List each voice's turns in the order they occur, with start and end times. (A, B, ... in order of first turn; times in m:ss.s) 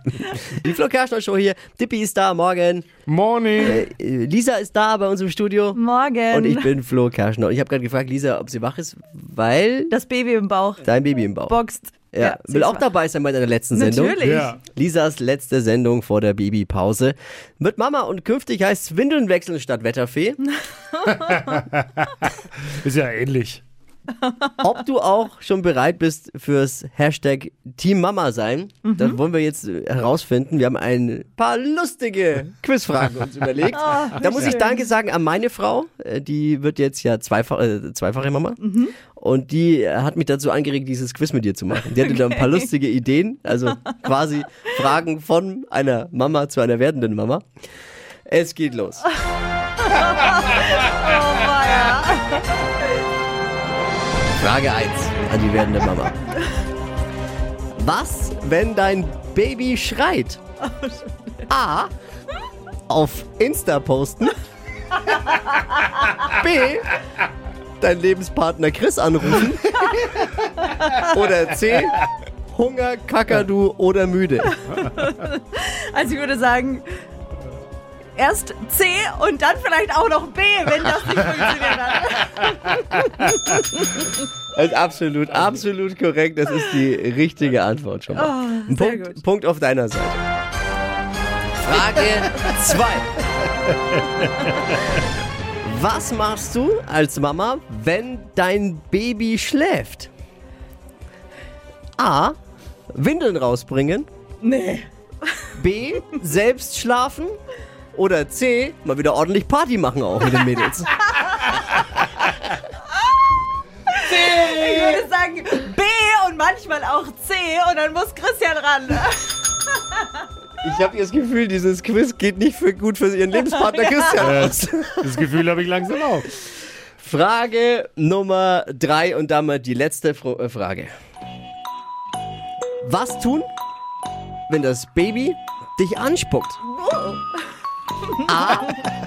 0:00.2-0:00.5 A
0:00.4-0:02.9 B
0:03.1-0:03.8 C
0:03.6-0:09.9 B
0:05.7-0:06.7 A
0:09.9-0:12.8 A
0:10.8-0:11.5 B
0:12.1-0:20.4 B
0:13.7-0:14.6 A
0:14.2-0:14.6 C
0:20.9-0:21.6 A
0:21.2-0:22.0 C
0:22.6-0:23.6 C
0:24.2-0:24.7 A
0:24.6-0:47.5 B
0:28.8-0:29.2 A
0:33.7-0:34.9 A
0:38.6-0:38.9 A
0:42.0-0:42.7 A
0:48.3-0:49.1 B
0:49.8-0:52.7 A
0:54.4-0:56.2 B
0:57.8-1:00.4 B
1:00.6-1:01.4 A
1:01.5-1:01.9 B
1:02.9-1:04.4 B
1:05.0-1:05.8 A
1:06.3-1:07.0 B
1:07.8-1:10.3 B
1:10.7-1:11.1 A
1:10.9-1:14.5 B
1:14.5-1:16.9 A
1:18.1-1:24.0 A
1:24.5-1:30.2 B
1:28.1-1:29.2 A
1:31.6-1:33.2 B
1:34.0-1:34.6 C
1:35.6-1:40.1 B
1:42.0-1:42.4 B
1:42.9-1:44.1 B
1:44.4-1:45.5 A
1:45.5-1:47.4 B
1:47.9-1:50.9 B
1:51.1-1:52.3 A
1:53.9-2:00.2 A
1:54.2-1:55.0 C
2:00.6-2:05.2 B
2:03.5-2:04.1 A
2:04.2-2:06.3 C
2:07.0-2:10.9 B
2:12.8-2:13.5 B
2:14.5-2:16.6 B
2:16.8-2:17.2 A
2:18.2-2:18.9 B